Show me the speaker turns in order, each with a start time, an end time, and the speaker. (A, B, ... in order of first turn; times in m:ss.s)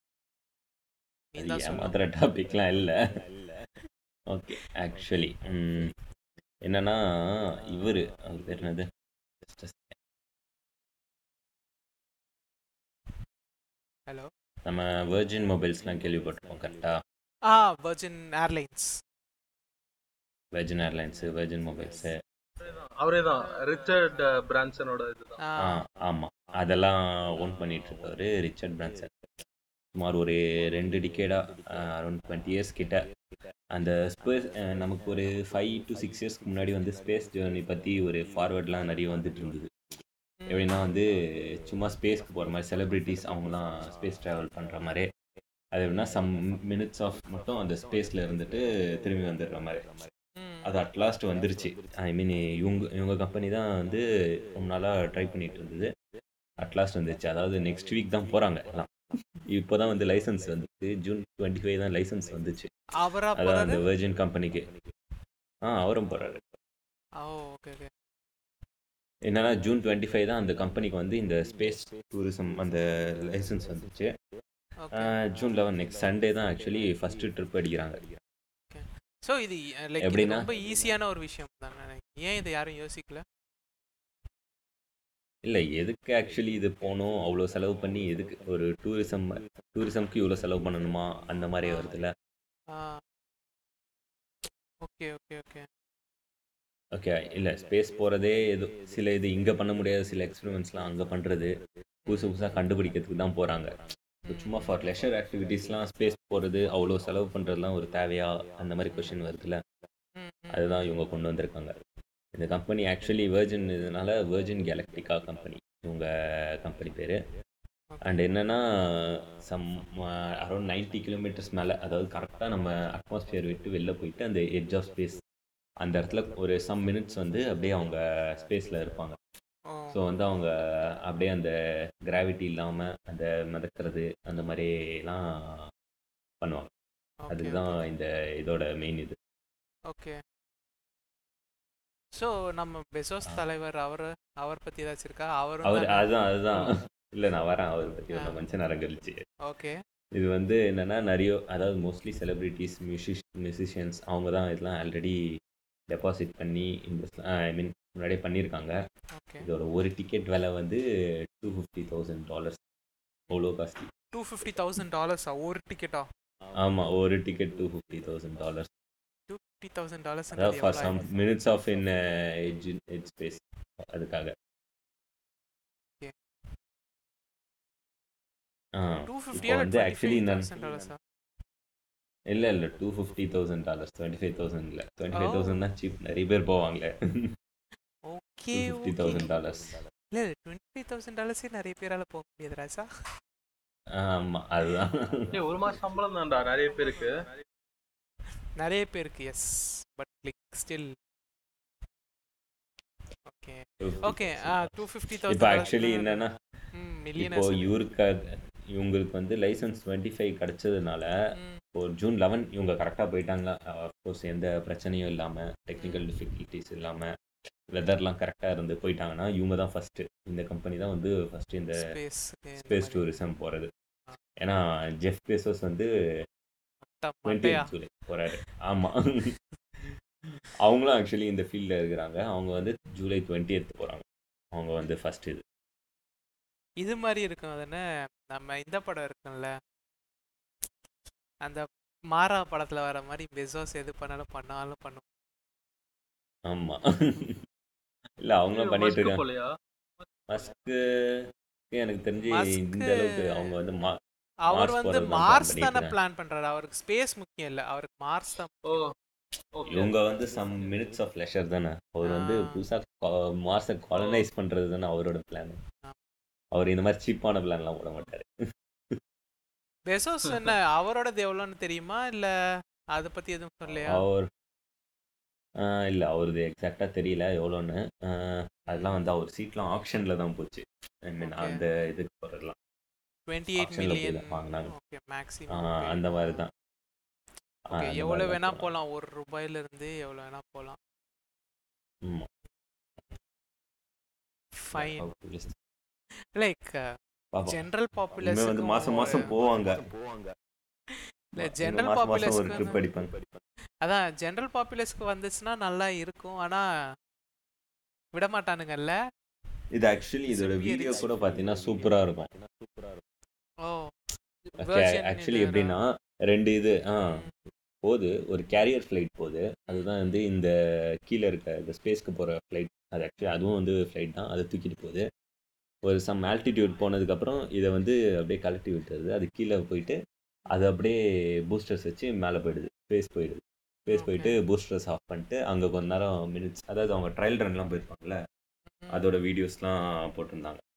0:01.4-0:02.0 A
0:01.4-0:03.0 B
0:04.3-0:05.9 B
0:06.6-0:07.0 B
0:07.6-0:08.9 B
0:09.4-0:10.0 B
0:14.6-0:17.0 B
0:17.5-0:18.9 A
0:20.5-0:22.2 B
0:23.0-0:25.4 C
0:25.5-0:25.8 A
0:25.6-0:29.3 B
0:29.9-0:33.2 B
0:33.7-0:39.7 B
0:40.5-0:45.1 B
0:45.7-0:50.1 B
0:50.4-0:50.7 A
0:50.6-0:55.9 B
0:56.6-0:59.0 B
0:59.5-1:02.7 B
1:03.0-1:03.8 A
1:03.4-1:04.7 B
1:05.6-1:06.6 B
1:07.2-1:07.9 A
1:09.2-1:14.1 B
1:14.8-1:15.1 A
1:14.9-1:18.2 B
1:18.7-1:23.2 A
1:20.0-1:20.5 B
1:25.4-1:32.1 B
1:32.8-1:33.0 A
1:34.8-1:35.6 A
1:37.0-1:49.6 B
1:42.1-1:42.6 A
1:44.3-1:44.7 A
1:48.9-1:49.1 A
1:50.2-1:50.6 A
1:50.5-1:51.8 B
1:52.3-1:57.2 B
1:57.9-1:58.2 A
1:58.0-2:05.2 B
2:05.8-2:09.2 B
2:09.9-2:11.5 B
2:12.1-2:15.7 B
2:16.4-2:16.7 B
2:17.2-2:17.8 A
2:17.3-2:19.2 B
2:19.9-2:20.2 A
2:22.1-2:26.7 A
2:25.6-2:29.2 B
2:29.5-2:29.8 A
2:30.1-2:35.2 B
2:35.9-2:38.7 B
2:39.1-2:39.4 A
2:39.4-2:40.8 B
2:41.4-2:42.6 B
2:43.3-2:43.9 B
2:44.1-2:46.1 A
2:46.6-2:48.7 B
2:49.3-2:51.0 A
2:50.3-2:54.3 B
2:58.8-3:00.5 B
2:59.1-3:01.0 A
3:02.3-3:07.0 B
3:05.2-3:05.6 A
3:08.1-3:09.3 A
3:08.5-3:09.8 B
3:10.1-3:12.8 A
3:13.9-3:15.3 B
3:15.3-3:17.3 C
3:18.6-3:20.9 A
3:23.3-3:26.2 A
3:23.8-3:24.7 B
3:25.3-3:26.3 B
3:26.7-3:27.6 A
3:27.2-3:31.1 B
3:31.4-3:31.6 A
3:31.7-3:37.1 B
3:35.8-3:36.0 A
3:37.7-3:41.8 B
3:41.8-3:43.0 A
3:42.6-3:43.7 B
3:44.4-3:45.9 B
3:46.8-3:47.7 A
3:47.2-3:49.3 B
3:50.6-3:55.4 B
3:56.8-3:59.5 A
4:01.4-4:05.0 A
4:06.5-4:07.4 B
4:08.2-4:09.2 B
4:08.5-4:09.5 C
4:10.3-4:10.8 B
4:11.7-4:13.9 B
4:12.3-4:13.5 A
4:14.5-4:18.6 A
4:14.5-4:15.9 B
4:18.7-4:18.9 C
4:19.6-4:19.9 C
4:19.7-4:25.6 B
4:22.1-4:22.6 A
4:24.0-4:24.2 C
4:26.5-4:28.3 B
4:29.9-4:32.3 A
4:33.0-4:34.0 A
4:33.9-4:34.3 B
4:35.6-4:42.6 B
4:41.2-4:41.6 A
4:43.3-4:46.4 A
4:43.6-4:44.7 B
4:45.5-4:46.5 B
4:47.7-4:48.7 B
4:47.7-4:50.8 A
4:54.6-4:55.0 A
4:54.8-4:55.6 B
4:56.4-4:56.8 A
4:57.3-4:57.6 B
4:57.5-4:59.3 A
4:58.2-4:59.8 B
5:01.4-5:02.8 A
5:01.4-5:03.2 B
5:03.8-5:06.6 A
5:08.1-5:09.0 A
5:09.7-5:12.3 B
5:10.3-5:11.1 A
5:13.6-5:13.9 A
5:14.6-5:15.7 A
5:14.7-5:17.1 B
5:17.1-5:17.3 A
5:17.8-5:20.5 B
5:21.0-5:25.0 B
5:25.8-5:30.0 B
5:30.5-5:38.2 B
5:33.9-5:34.4 A
5:38.8-5:39.1 A
5:38.9-5:40.6 B